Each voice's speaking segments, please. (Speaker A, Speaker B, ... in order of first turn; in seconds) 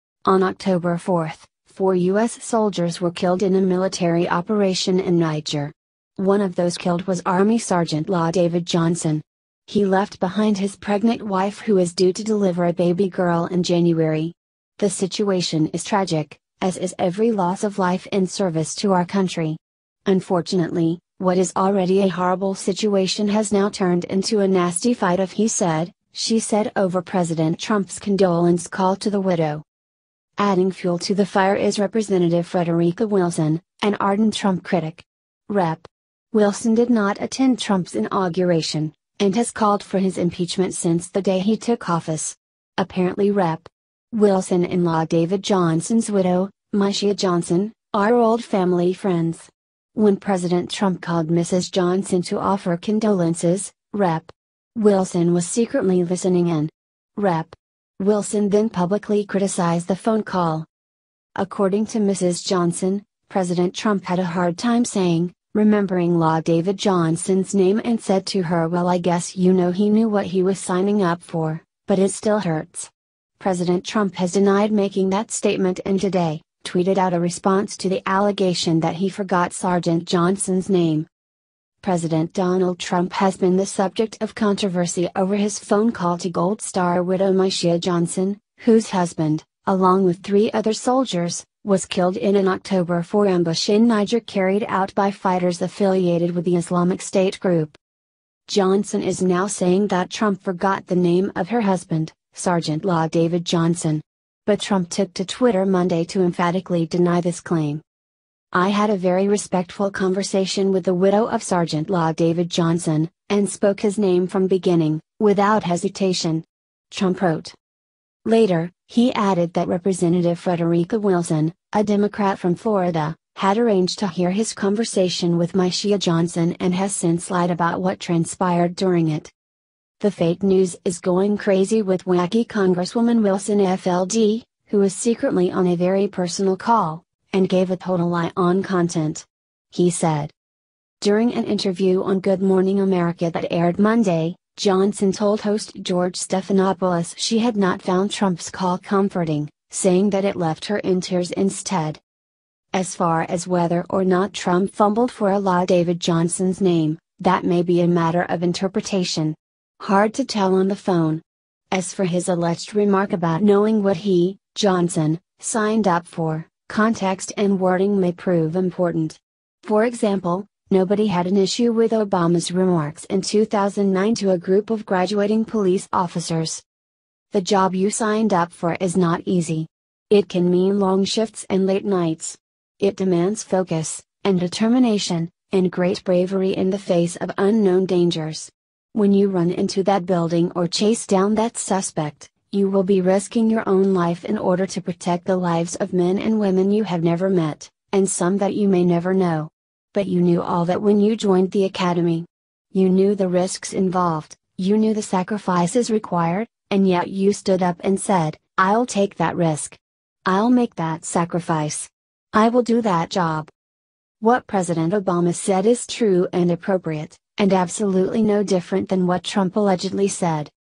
Speaker A: 0.2-29.6, 30.4-60.7, 61.4-81.1, 81.8-97.8, 98.5-107.8, 108.5-117.5, 118.2-129.3, 130.0-140.3, 141.0-152.0, 152.7-176.6, 177.3-213.5, 214.2-220.5